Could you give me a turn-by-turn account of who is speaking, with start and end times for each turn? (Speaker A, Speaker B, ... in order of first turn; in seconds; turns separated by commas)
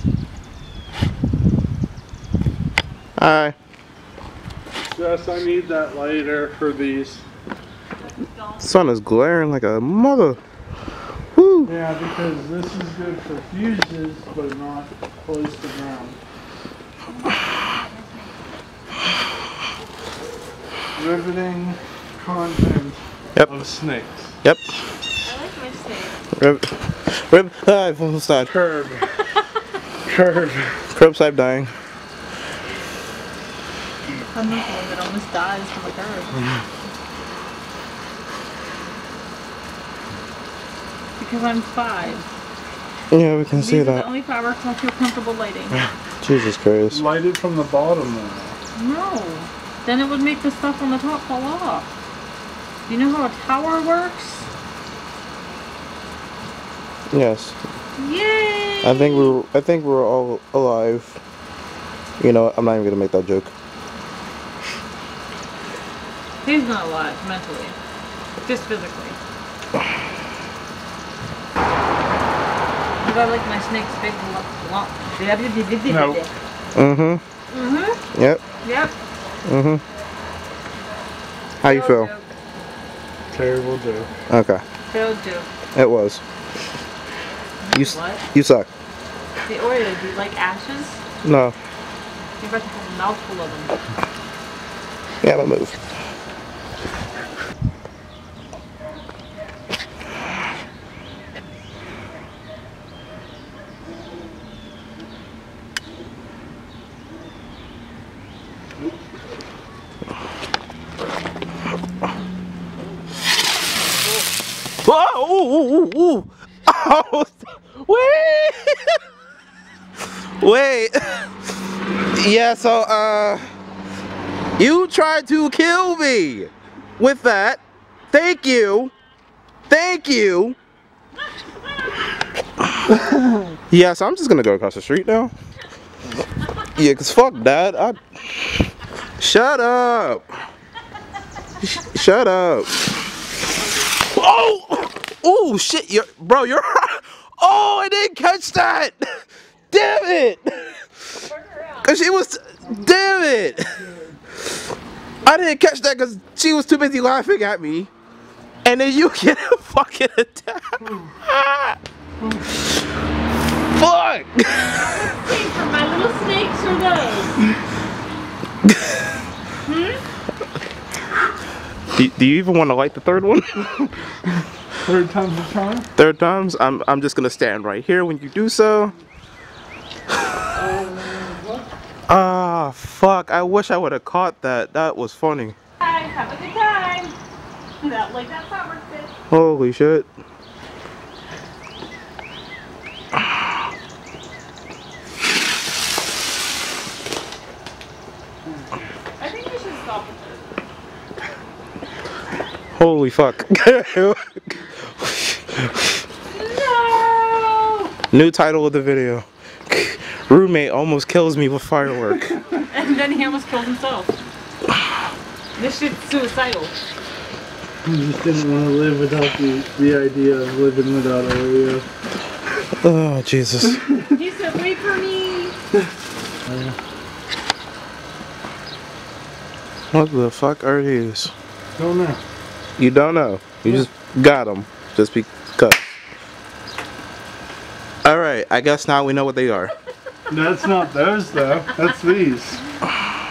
Speaker A: 3.2-3.5, Speaker B: 4.8-7.2, Speaker C: 8.3-8.6, Speaker A: 8.6-10.4, Speaker A: 11.3-11.7, Speaker B: 11.6-16.2, Speaker C: 17.1-18.3, Speaker B: 20.9-24.3, Speaker C: 25.2-26.1, Speaker A: 26.4-28.5, Speaker B: 28.5-29.1, Speaker B: 30.0-30.8, Speaker A: 30.9-31.7, Speaker C: 34.3-36.4, Speaker B: 36.3-36.6, Speaker C: 41.2-42.2, Speaker A: 43.1-44.1, Speaker C: 43.5-45.8, Speaker A: 46.2-47.0, Speaker B: 46.9-48.5, Speaker C: 48.8-51.9, Speaker C: 52.9-54.4, Speaker A: 57.1-57.6, Speaker C: 58.0-59.3, Speaker A: 58.8-61.2, Speaker A: 62.2-63.5, Speaker C: 66.4-67.8, Speaker C: 68.4-69.2, Speaker C: 73.0-76.3, Speaker B: 75.9-76.2, Speaker A: 76.7-77.2, Speaker C: 77.5-78.0, Speaker A: 78.1-78.4, Speaker C: 78.6-78.9, Speaker A: 79.5-79.8, Speaker A: 81.6-82.1, Speaker C: 81.6-82.3, Speaker B: 83.3-84.1, Speaker A: 84.3-84.6, Speaker C: 84.9-85.5, Speaker A: 85.7-86.2, Speaker C: 87.6-88.2, Speaker A: 87.7-88.7, Speaker C: 89.5-91.0, Speaker A: 91.2-91.5, Speaker C: 92.4-93.7, Speaker A: 95.2-95.8, Speaker A: 114.8-119.0, Speaker A: 120.4-121.3, Speaker A: 122.1-123.5, Speaker A: 124.6-128.9, Speaker A: 129.7-130.6, Speaker A: 133.7-135.3, Speaker A: 136.7-140.3, Speaker A: 141.6-142.9, Speaker A: 144.0-150.8, Speaker C: 151.3-151.9, Speaker A: 151.8-153.8, Speaker A: 155.2-157.9, Speaker A: 158.6-161.8, Speaker A: 163.7-165.1, Speaker C: 164.7-167.4, Speaker A: 168.6-168.9, Speaker C: 169.7-170.0, Speaker A: 171.9-173.9, Speaker B: 174.8-175.9, Speaker A: 175.9-178.9, Speaker B: 180.5-181.7, Speaker A: 182.1-185.5, Speaker C: 185.8-187.1, Speaker C: 187.8-189.1, Speaker A: 189.3-190.1, Speaker C: 199.2-200.5, Speaker A: 202.8-205.8, Speaker C: 206.3-207.9, Speaker A: 208.1-212.4, Speaker C: 212.6-214.1, Speaker C: 215.6-216.7, Speaker B: 217.8-221.8, Speaker A: 222.8-223.8, Speaker B: 223.7-224.2, Speaker C: 224.1-225.6, Speaker B: 226.4-226.7, Speaker A: 229.9-231.3, Speaker B: 231.8-232.2, Speaker A: 232.8-235.9, Speaker A: 238.0-239.7, Speaker B: 240.3-242.6